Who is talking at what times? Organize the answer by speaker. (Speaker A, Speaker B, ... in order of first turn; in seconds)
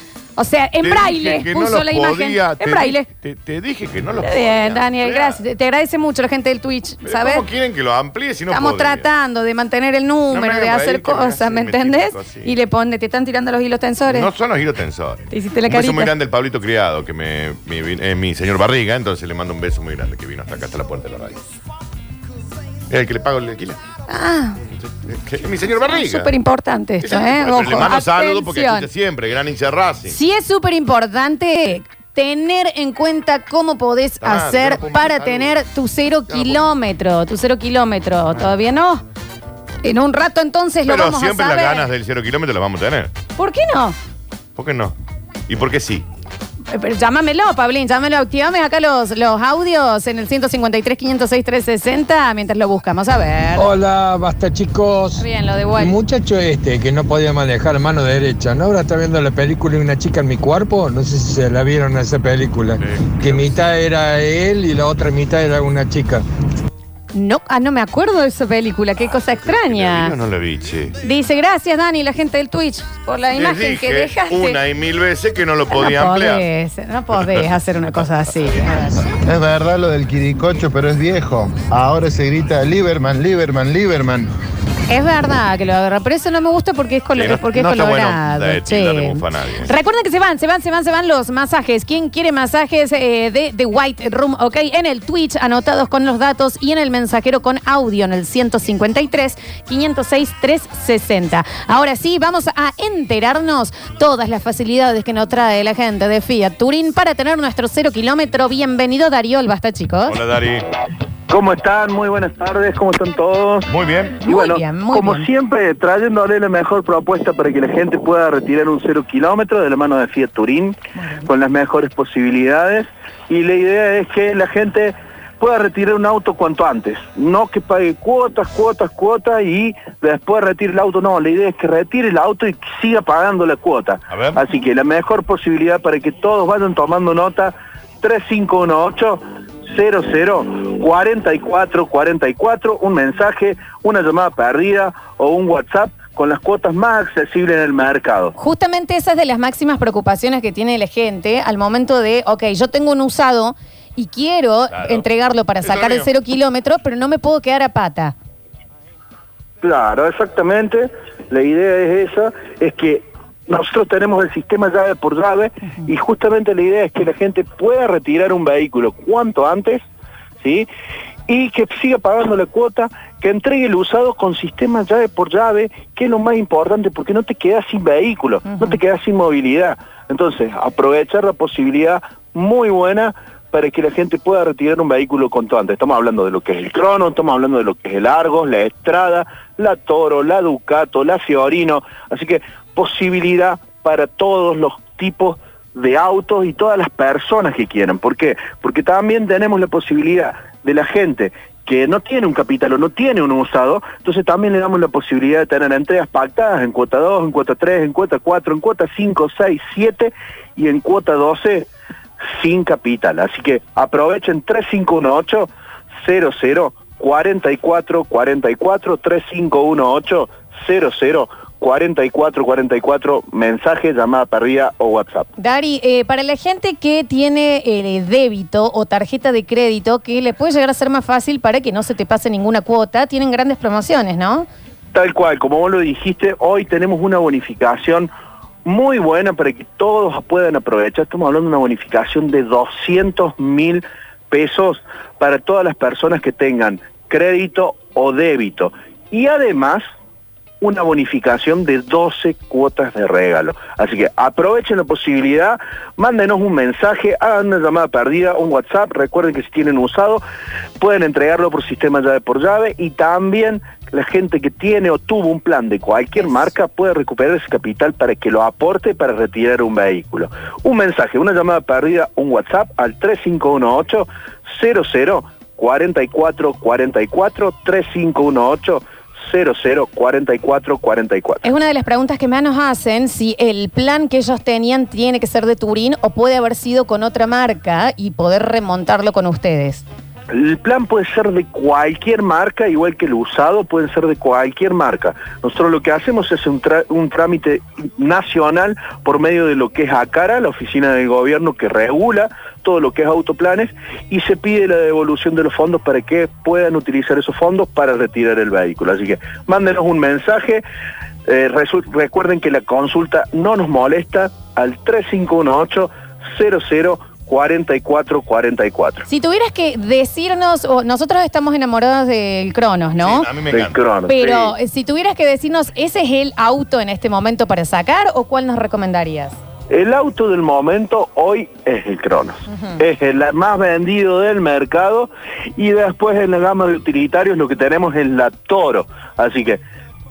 Speaker A: 0.4-3.1, 4.2-7.5, 8.5-14.3, 15.3-16.1, 24.1-24.6, 25.9-28.9, 30.1-39.0, 39.8-41.9, 43.4-44.0, 46.7-53.7, 55.2-56.0, 67.1-70.2, 71.0-74.6, 75.7-79.1, 84.9-110.2, 114.2-115.3, 121.0-121.2, 148.4-158.2, 178.5-178.8, 225.4-234.5, 266.2-266.4, 281.4-289.8, 319.1-323.3, 324.1-329.4, 332.5-332.8
Speaker B: 0.8-5.4, 7.0-9.1, 10.3-12.5, 14.1-21.4, 22.9-23.8, 25.0-26.3, 27.0-30.1, 34.2-35.6, 36.3-36.6, 40.9-43.1, 44.6-45.0, 45.5-46.0, 62.8-63.4, 69.5-70.9, 73.4-76.5, 87.2-89.7, 110.1-110.7, 113.7-114.2, 134.1-134.4, 154.8-155.0, 155.6-156.0, 323.0-323.8
Speaker C: 53.6-55.2, 55.9-66.2
Speaker D: 79.2-84.3
Speaker E: 111.3-113.7, 114.2-148.3, 159.6-169.8, 170.4-170.7, 171.3-211.7, 212.2-215.5, 216.0-225.3, 234.9-238.1, 238.7-249.8, 250.6-260.2, 260.8-281.4, 290.3-310.6, 311.3-319.1, 323.5-324.6, 329.7-339.6